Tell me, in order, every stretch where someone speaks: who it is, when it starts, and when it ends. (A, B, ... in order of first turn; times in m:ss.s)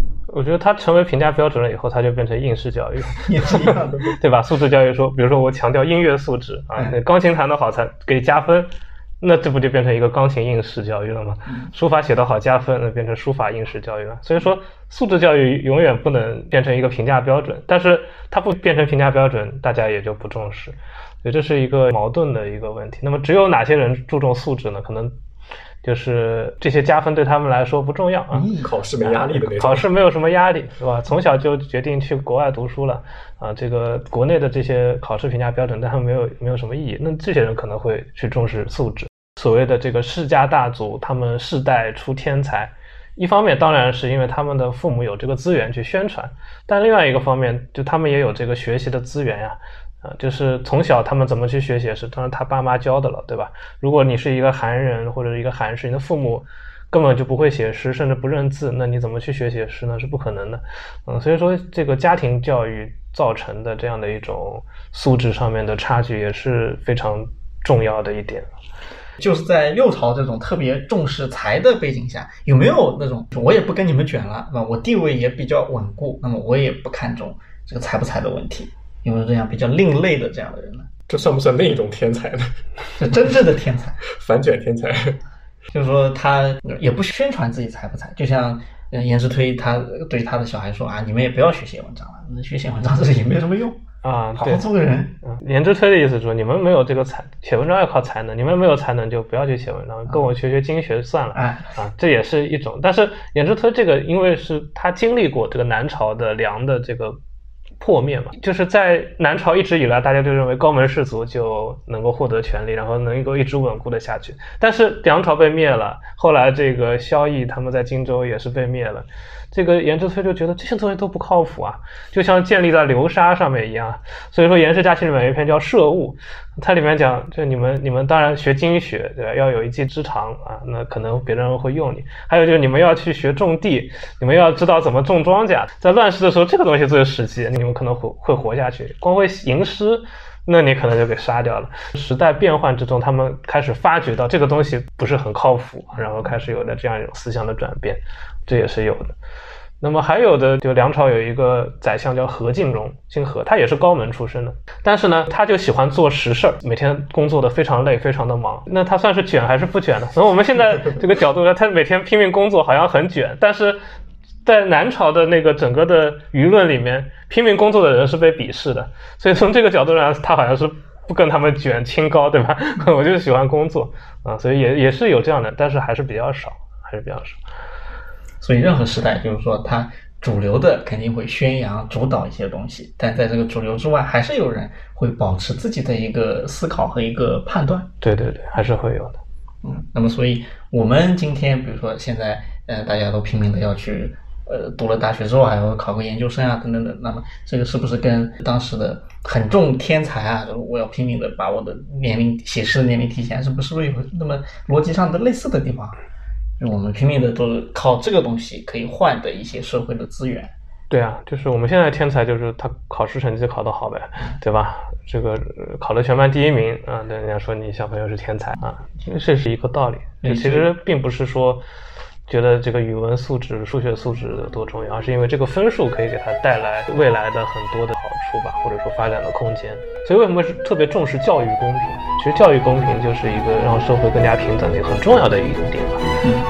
0:00.3-0:08.7 A
0:03.2-0:04.1 B
0:09.2-0:25.1 A
0:25.8-1:08.5 A
0:28.3-0:28.7 B
0:28.6-0:29.9 C
1:09.2-1:20.9 B
1:21.1-1:22.6 C
1:23.0-1:24.0 B
1:24.1-1:25.2 C
1:25.7-1:33.8 B
1:34.0-1:34.6 A
1:34.4-1:35.2 B
1:35.2-1:47.2 A
1:41.3-1:41.8 B
1:47.8-2:29.1 A
2:29.8-2:43.8 A
2:44.4-2:57.4 A
2:58.4-3:07.9 B
3:08.0-3:09.2 A
3:09.6-3:26.0 B
3:26.6-3:30.5 B
3:30.9-3:41.6 A
3:40.2-3:40.7 B
3:42.3-3:56.0 A